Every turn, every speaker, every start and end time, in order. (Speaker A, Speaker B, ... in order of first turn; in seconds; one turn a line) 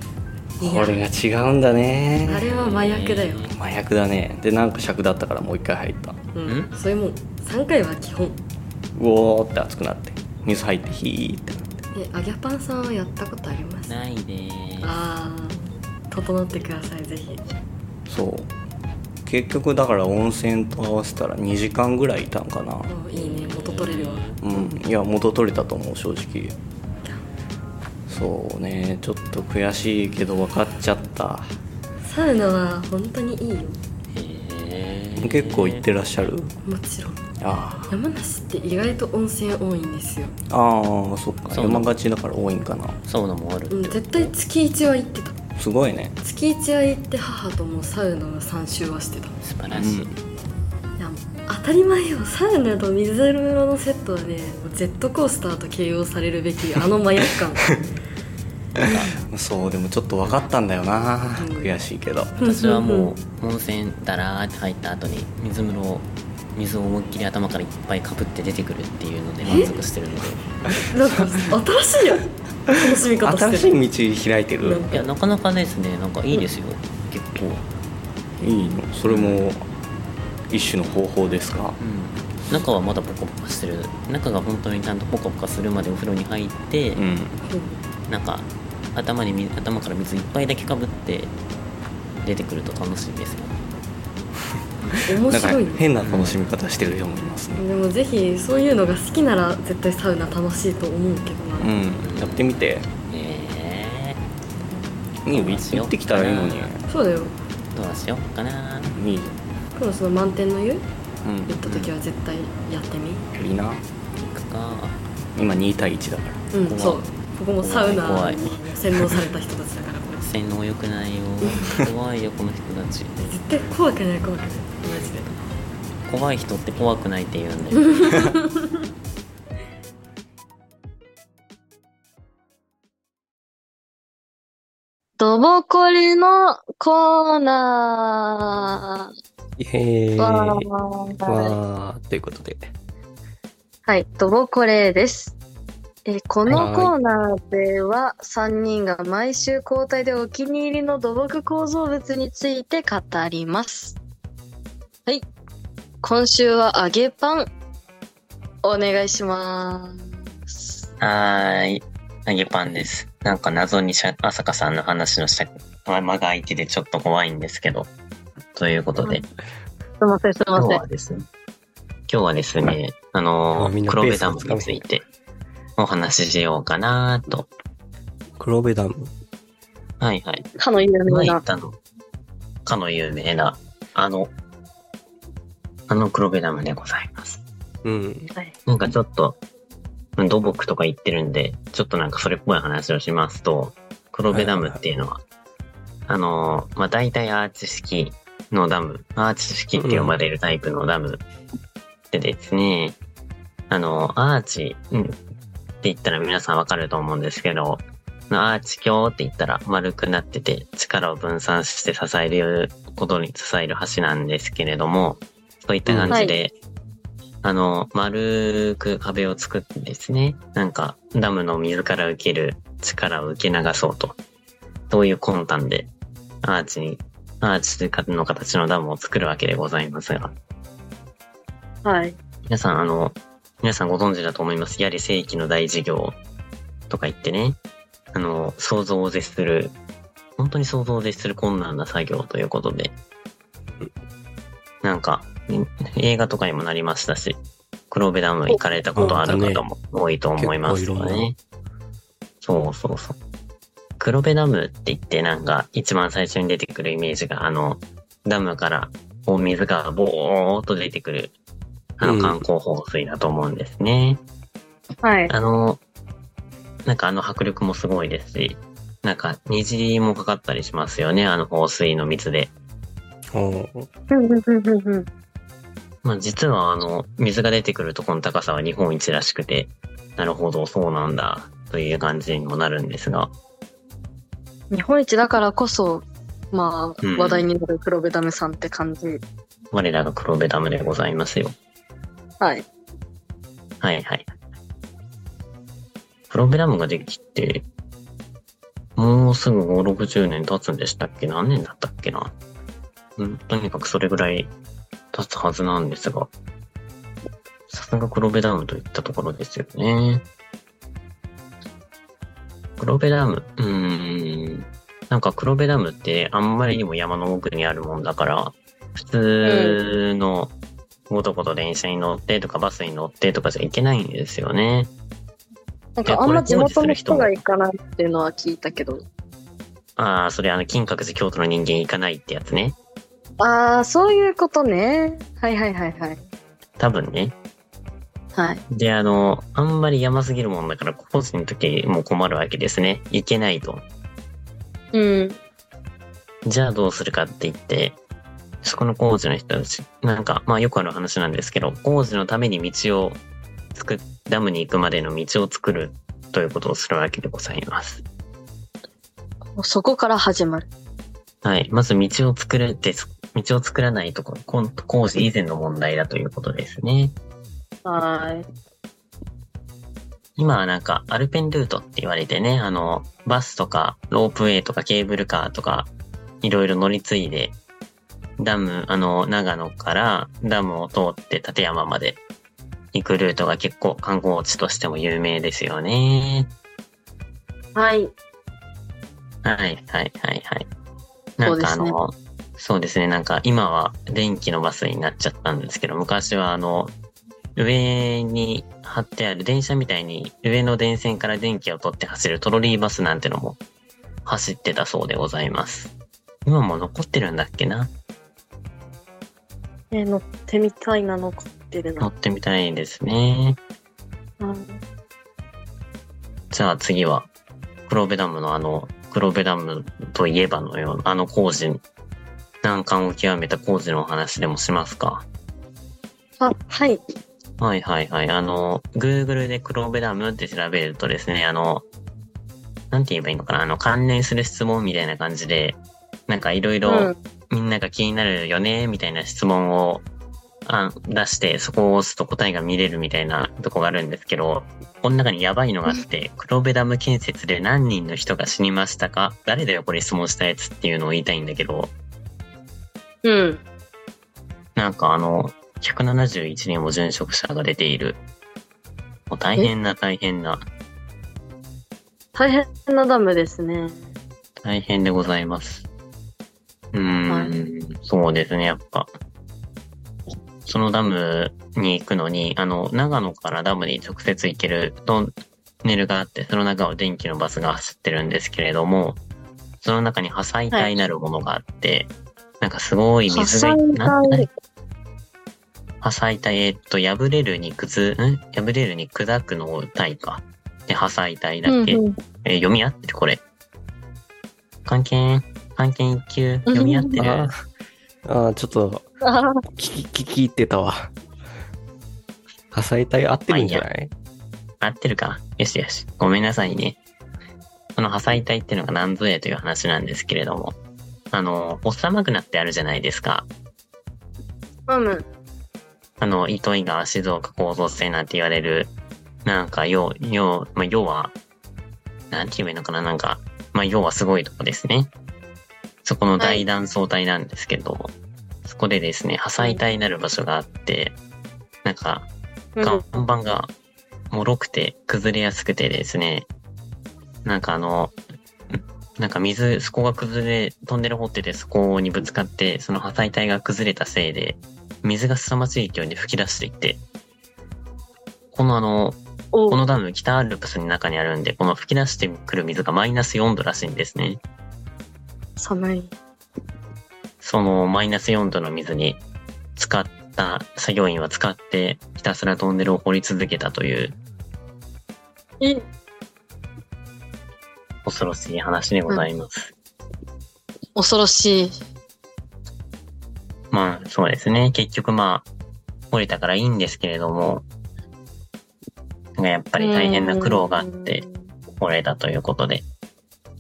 Speaker A: 0.6-1.0
Speaker B: 0.6-2.5
Speaker A: 2.2-3.5
Speaker C: 2.4-3.5
Speaker B: 3.5-6.2
Speaker A: 6.3-8.4
Speaker C: 6.5-6.7
Speaker B: 8.9-11.8
Speaker A: 11.9-14.0
Speaker C: 13.9-15.0
Speaker A: 14.8-17.4
Speaker B: 18.1-18.5
Speaker B: 19.3-22.9
Speaker A: 22.9-24.3
Speaker C: 23.1-24.4
Speaker B: 24.4-26.6
Speaker B: 28.1-31.5
Speaker A: 32.0-33.8
Speaker C: 34.1-35.9
Speaker B: 35.2-36.5
Speaker A: 36.7-37.2
Speaker B: 37.4-37.9
Speaker A: 37.8-40.4
Speaker B: 40.5-43.0
Speaker C: 41.5-41.9
Speaker C: 43.1-44.4
Speaker A: 43.7-45.4
Speaker B: 45.6-46.1
Speaker A: 46.2-49.4
Speaker C: 49.4-50.1
Speaker B: 49.7-50.2
Speaker A: 51.0-57.7
Speaker C: 58.8-59.1
Speaker B: 59.1-62.4
Speaker A: 61.3-61.8
Speaker A: 62.4-63.1
Speaker C: 62.4-70.4
Speaker A: 69.4-69.8
Speaker A: 70.9-73.7
Speaker B: 71.0-71.4
Speaker B: 72.7-74.8
Speaker A: 74.6-75.1
Speaker C: 74.9-77.6
Speaker B: 78.4-79.6
Speaker C: 79.1-79.5
Speaker B: 80.5-81.8
Speaker C: 81.8-87.0
Speaker B: 87.0-87.4
Speaker A: 87.5-87.8
Speaker C: 88.1-91.3
Speaker C: 92.2-93.5
Speaker A: 94.9-95.8
Speaker B: 95.1-97.6
Speaker C: 96.0-96.4
Speaker A: 97.6-101.7
Speaker B: 101.6-102.9
Speaker C: 102.0-104.2
Speaker A: 104.6-105.0
Speaker B: 105.2-106.8
Speaker C: 105.3-106.7
Speaker A: 106.9-107.3
Speaker C: 107.7-109.0
Speaker B: 108.9-109.4
Speaker A: 109.8-110.8
Speaker B: 111.2-111.7
Speaker A: 111.5-113.3
Speaker C: 111.7-111.9
Speaker B: 113.3-113.8
Speaker C: 114.2-115.0
Speaker B: 115.3-116.5
Speaker A: 116.5-120.3
Speaker C: 116.6-117.0
Speaker C: 117.6-118.6
Speaker C: 120.2-123.3
Speaker A: 123.2-125.4
Speaker C: 126.1-128.3
Speaker A: 127.8-128.6
Speaker D: 135.2-139.1
Speaker E: 139.6-140.7
Speaker D: 140.2-141.6
Speaker E: 141.3-142.7
Speaker D: 143.9-145.3
Speaker D: 146.1-154.0
Speaker E: 146.5-146.9
Speaker D: 156.0-157.5
Speaker D: 158.6-160.9
Speaker C: 161.0-167.9
Speaker C: 168.6-169.2
Speaker D: 170.0-170.8
Speaker C: 170.6-171.3
Speaker C: 172.1-175.1
Speaker E: 173.6-174.8
Speaker C: 175.8-177.5
Speaker E: 178.4-179.1
Speaker C: 180.0-180.5
Speaker D: 180.6-181.4
Speaker C: 181.1-181.8
Speaker C: 182.7-184.3
Speaker C: 185.9-187.4
Speaker E: 187.8-188.3
Speaker C: 188.7-189.4
Speaker C: 190.2-195.2
Speaker E: 194.3-194.8
Speaker C: 196.1-201.2
Speaker E: 199.8-200.2
Speaker C: 202.1-203.0
Speaker C: 203.7-205.2
Speaker C: 205.8-216.6
Speaker E: 215.9-216.2
Speaker D: 216.1-216.4
Speaker C: 217.4-224.2
Speaker C: 224.9-225.9
Speaker C: 226.4-230.4
Speaker D: 231.8-232.2
Speaker C: 232.5-236.2
Speaker C: 236.9-237.6
Speaker C: 238.1-239.8
Speaker C: 240.4-242.9
Speaker C: 244.8-247.4
Speaker C: 247.9-251.4
Speaker E: 249.0-249.7
Speaker E: 250.4-251.3
Speaker C: 252.4-253.2
Speaker C: 254.0-261.3
Speaker C: 262.0-264.2
Speaker E: 262.0-262.4
Speaker D: 265.0-265.3
Speaker C: 265.3-265.8
Speaker C: 266.9-272.5
Speaker E: 273.3-273.9
Speaker D: 274.1-275.1
Speaker C: 276.0-283.3
Speaker D: 284.7-289.2
Speaker C: 287.0-287.5
Speaker C: 289.7-291.6
Speaker D: 292.4-292.7
Speaker C: 293.8-294.3
Speaker C: 296.3-297.7
Speaker C: 299.0-302.3
Speaker C: 303.2-304.5
Speaker C: 305.1-306.3
Speaker C: 307.7-310.2
Speaker C: 312.8-320.5
Speaker D: 319.4-319.8
Speaker C: 321.1-324.9
Speaker D: 326.0-329.1
Speaker C: 326.1-327.4
Speaker C: 330.0-332.8
Speaker D: 333.4-336.2
Speaker C: 336.8-337.4
Speaker D: 338.4-338.6
Speaker C: 338.7-343.8
Speaker D: 344.9-345.4
Speaker C: 346.5-348.0
Speaker C: 348.6-353.2
Speaker C: 353.8-358.0
Speaker D: 359.6-360.7
Speaker C: 361.4-367.2
Speaker D: 367.9-368.5
Speaker C: 370.4-375.9
Speaker C: 376.4-377.6
Speaker C: 378.4-382.2
Speaker C: 382.9-386.5
Speaker D: 387.8-388.1
Speaker C: 389.4-390.7
Speaker C: 391.4-396.9
Speaker D: 391.4-392.0
Speaker C: 397.6-403.6
Speaker C: 404.2-405.9
Speaker C: 406.4-407.9
Speaker D: 409.9-412.1
Speaker C: 412.0-413.6
Speaker D: 414.4-414.8
Speaker C: 416.5-417.3
Speaker C: 417.9-421.8
Speaker C: 422.6-425.3
Speaker D: 426.4-427.0
Speaker C: 427.6-431.9
Speaker C: 432.9-440.1
Speaker D: 436.9-437.1
Speaker C: 440.7-451.9
Speaker D: 453.2-453.6
Speaker C: 454.8-458.2
Speaker C: 459.3-460.6
Speaker D: 462.4-464.1
Speaker C: 464.6-465.9
Speaker C: 466.9-469.1
Speaker C: 470.7-475.3
Speaker C: 475.8-479.2
Speaker C: 479.8-484.5
Speaker D: 483.3-484.5
Speaker C: 486.0-493.4
Speaker D: 491.7-492.1
Speaker C: 494.9-497.5
Speaker D: 496.7-497.2
Speaker E: 497.2-497.5
Speaker E: 498.3-499.1
Speaker D: 499.2-499.6
Speaker E: 499.8-501.1
Speaker E: 502.7-504.1
Speaker C: 503.5-503.9
Speaker C: 504.8-507.0
Speaker C: 508.0-510.8
Speaker C: 511.3-513.5
Speaker D: 514.9-515.3
Speaker C: 516.2-518.9
Speaker C: 519.5-521.3
Speaker C: 522.3-525.1
Speaker C: 526.0-528.1
Speaker D: 526.4-526.6
Speaker C: 528.6-531.2
Speaker C: 531.8-532.3
Speaker D: 532.8-533.0
Speaker C: 532.8-533.7
Speaker C: 534.3-536.5
Speaker C: 537.5-538.1
Speaker C: 538.7-547.0
Speaker C: 548.5-554.4
Speaker D: 549.5-549.8
Speaker D: 555.6-556.1
Speaker C: 557.4-559.2
Speaker C: 559.8-564.2
Speaker C: 568.0-569.7
Speaker D: 571.0-571.8
Speaker C: 573.7-575.5
Speaker C: 576.1-577.6
Speaker C: 579.4-582.9
Speaker D: 579.8-581.4